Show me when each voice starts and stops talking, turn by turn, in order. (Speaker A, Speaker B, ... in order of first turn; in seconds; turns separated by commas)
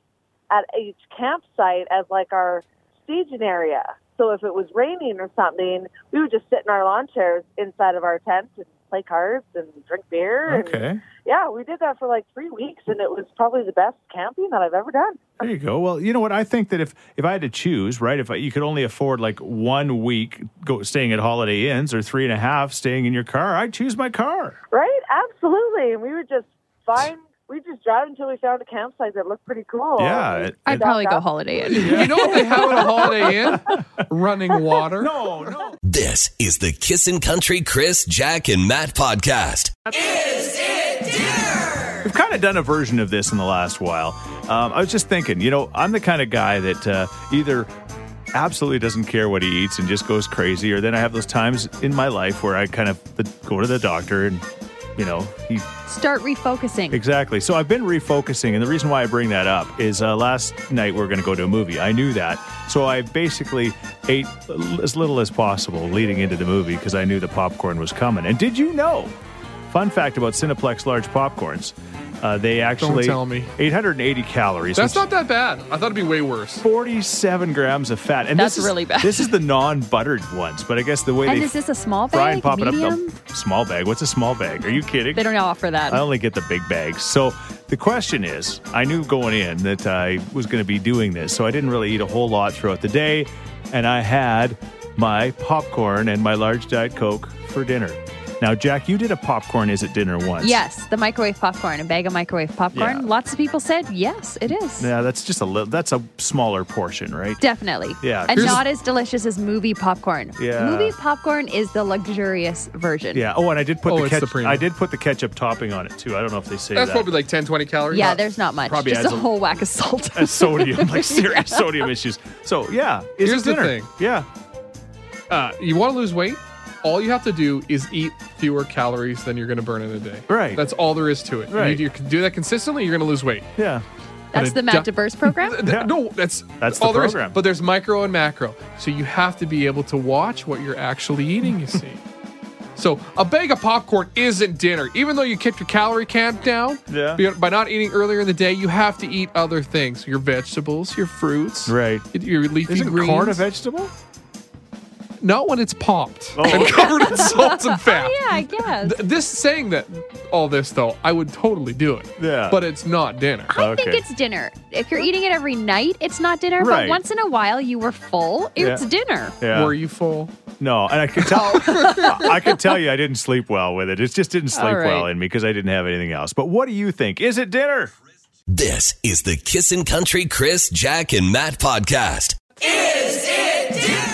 Speaker A: 0.5-10.7, Speaker B: 10.4-11.0, Speaker A: 11.2-15.2, Speaker B: 15.4-24.6, Speaker A: 24.7-31.2, Speaker B: 30.0-30.8, Speaker C: 30.6-32.8, Speaker D: 31.7-35.1, Speaker B: 31.8-33.6, Speaker B: 35.0-35.8, Speaker E: 35.8-39.7, Speaker B: 39.9-40.7, Speaker B: 42.0-47.7, Speaker B: 48.3-54.4, Speaker B: 55.0-55.7, Speaker C: 55.9-57.0, Speaker B: 56.9-69.1, Speaker B: 69.7-75.0, Speaker D: 72.8-73.5, Speaker D: 74.8-76.6, Speaker B: 76.6-81.6, Speaker C: 78.3-79.3, Speaker C: 81.2-83.2, Speaker B: 82.1-85.3, Speaker C: 85.1-86.0, Speaker B: 85.9-100.6, Speaker C: 100.4-104.9, Speaker B: 102.7-103.1, Speaker B: 104.8-107.4, Speaker C: 107.4-113.2, Speaker B: 108.0-108.6, Speaker D: 108.3-108.6, Speaker B: 110.4-110.9, Speaker B: 113.1-117.2, Speaker D: 113.8-114.7, Speaker D: 116.7-118.2, Speaker C: 117.9-121.7, Speaker B: 118.0-119.3, Speaker B: 120.1-124.3, Speaker D: 123.2-123.9, Speaker D: 125.3-133.5, Speaker B: 130.3-130.6, Speaker B: 131.5-131.8, Speaker B: 133.6-133.8, Speaker C: 134.3-135.6, Speaker D: 134.3-142.0, Speaker B: 135.6-135.9, Speaker B: 136.6-137.4, Speaker D: 142.8-153.4, Speaker B: 146.9-147.2, Speaker B: 151.7-152.1, Speaker B: 152.7-153.9, Speaker D: 155.2-163.5, Speaker B: 156.3-157.2, Speaker C: 156.5-159.0, Speaker B: 162.2-162.6, Speaker C: 163.5-169.3, Speaker B: 163.5-164.0, Speaker B: 166.6-167.0, Speaker B: 168.6-168.8, Speaker B: 169.4-169.8, Speaker D: 169.5-170.3, Speaker B: 170.6-177.9, Speaker D: 171.3-172.2, Speaker C: 174.5-175.1, Speaker E: 178.5-183.6